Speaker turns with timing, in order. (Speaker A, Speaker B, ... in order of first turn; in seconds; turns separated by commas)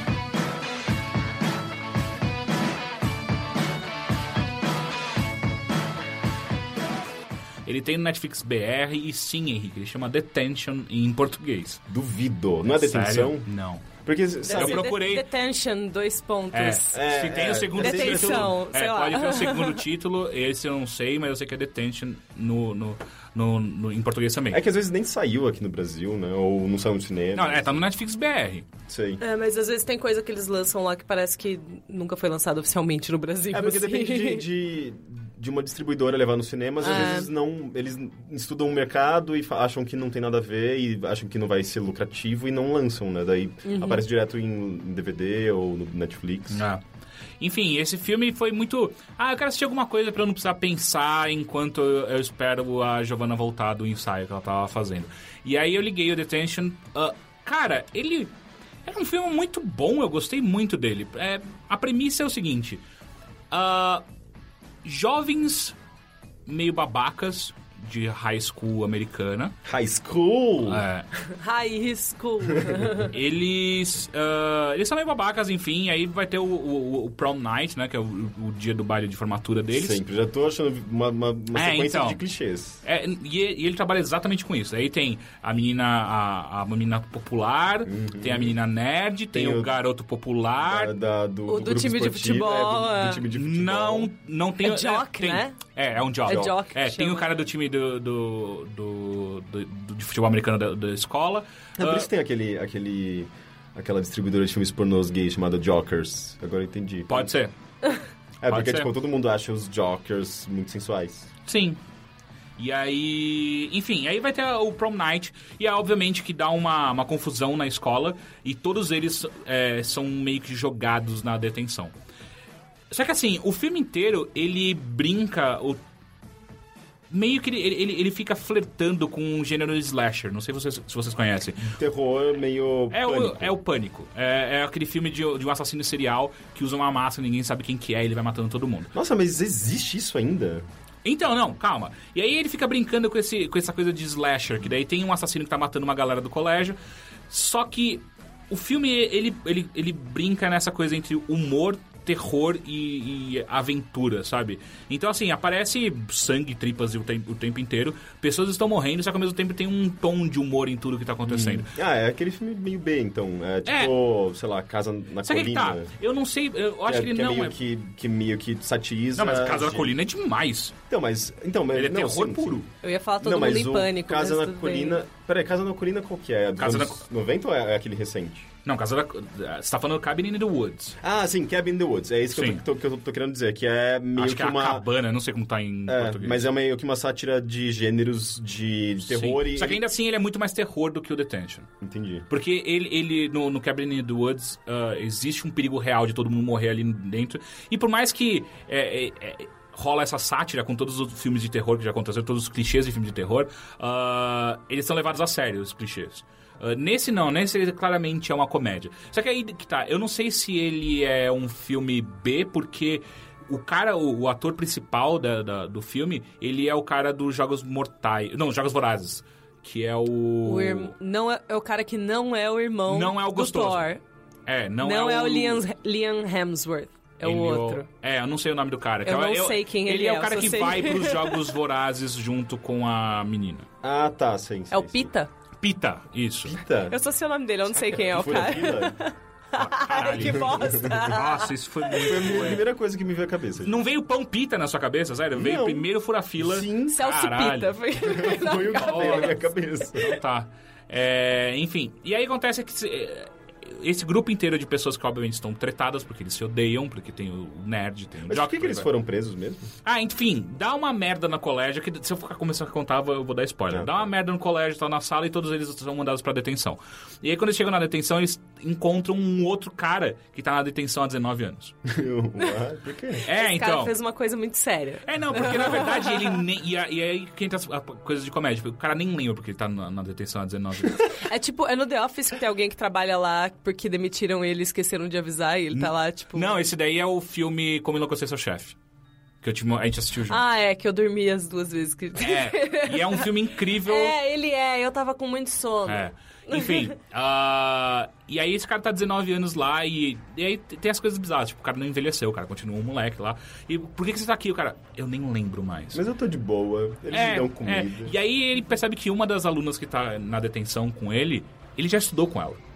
Speaker A: 7.7-11.8, Speaker B: 11.9-13.5, Speaker A: 12.7-13.8, Speaker B: 14.0-14.9, Speaker C: 14.5-17.1, Speaker A: 14.5-15.2, Speaker A: 16.5-24.6, Speaker B: 16.9-18.5, Speaker C: 17.8-19.8, Speaker B: 24.5-27.8, Speaker A: 27.3-28.7, Speaker B: 28.9-29.2, Speaker C: 29.2-34.4, Speaker B: 33.5-46.6, Speaker C: 36.8-37.3, Speaker C: 43.6-44.0, Speaker A: 46.5-46.8, Speaker A: 47.4-58.3, Speaker A: 58.9-62.8, Speaker A: 63.5-64.0, Speaker A: 64.8-65.8, Speaker A: 66.5-69.5, Speaker B: 69.6-70.8, Speaker A: 70.7-71.1, Speaker C: 71.4-73.1, Speaker A: 73.1-80.0, Speaker B: 79.7-82.8, Speaker A: 81.5-82.2, Speaker A: 82.8-90.9, Speaker B: 87.8-88.5, Speaker B: 89.3-89.8, Speaker B: 90.6-94.1, Speaker C: 91.5-93.2, Speaker A: 93.3-102.1, Speaker C: 94.6-95.6, Speaker C: 96.2-97.3, Speaker B: 101.8-107.3, Speaker A: 107.1-107.5, Speaker B: 108.4-111.3, Speaker A: 108.5-108.9, Speaker A: 111.5-111.8, Speaker A: 112.6-121.9, Speaker A: 122.9-125.8, Speaker A: 127.1-131.7, Speaker B: 131.7-133.5, Speaker A: 132.9-138.9, Speaker B: 138.9-140.6, Speaker A: 141.0-146.8, Speaker A: 147.3-161.7, Speaker B: 161.2-165.9, Speaker A: 163.7-163.9, Speaker A: 165.2-167.6, Speaker B: 166.8-169.9, Speaker A: 169.2-170.7, Speaker B: 170.9-172.6, Speaker A: 171.7-172.7, Speaker C: 172.8-175.0, Speaker B: 173.2-178.5, Speaker A: 176.6-177.0, Speaker A: 178.6-181.0, Speaker B: 181.0-184.9, Speaker A: 182.3-182.6, Speaker A: 184.2-186.5, Speaker B: 185.9-189.8, Speaker A: 189.0-191.7, Speaker B: 191.8-192.3, Speaker A: 192.3-220.9, Speaker C: 220.4-224.0, Speaker A: 222.9-223.9, Speaker A: 224.5-225.6, Speaker C: 224.8-227.9, Speaker A: 227.2-233.7, Speaker C: 229.0-231.5, Speaker B: 233.8-235.1, Speaker C: 234.7-235.3, Speaker A: 235.6-236.6, Speaker B: 236.4-237.0, Speaker C: 236.9-242.1, Speaker B: 237.8-239.0, Speaker A: 239.5-242.6, Speaker B: 242.0-243.8, Speaker A: 243.6-247.7, Speaker B: 245.3-247.0, Speaker C: 246.9-249.4, Speaker B: 248.0-250.1, Speaker A: 248.8-249.4, Speaker A: 249.9-258.9, Speaker B: 258.3-259.7, Speaker A: 259.8-271.7, Speaker B: 263.7-264.0, Speaker B: 271.9-273.2, Speaker A: 273.2-273.9, Speaker C: 273.3-276.4, Speaker A: 275.0-281.1, Speaker C: 281.1-286.6, Speaker A: 285.7-288.8, Speaker A: 289.4-290.4, Speaker C: 290.3-296.9, Speaker A: 292.2-294.1, Speaker A: 295.9-306.0, Speaker B: 305.9-308.1, Speaker A: 307.1-312.6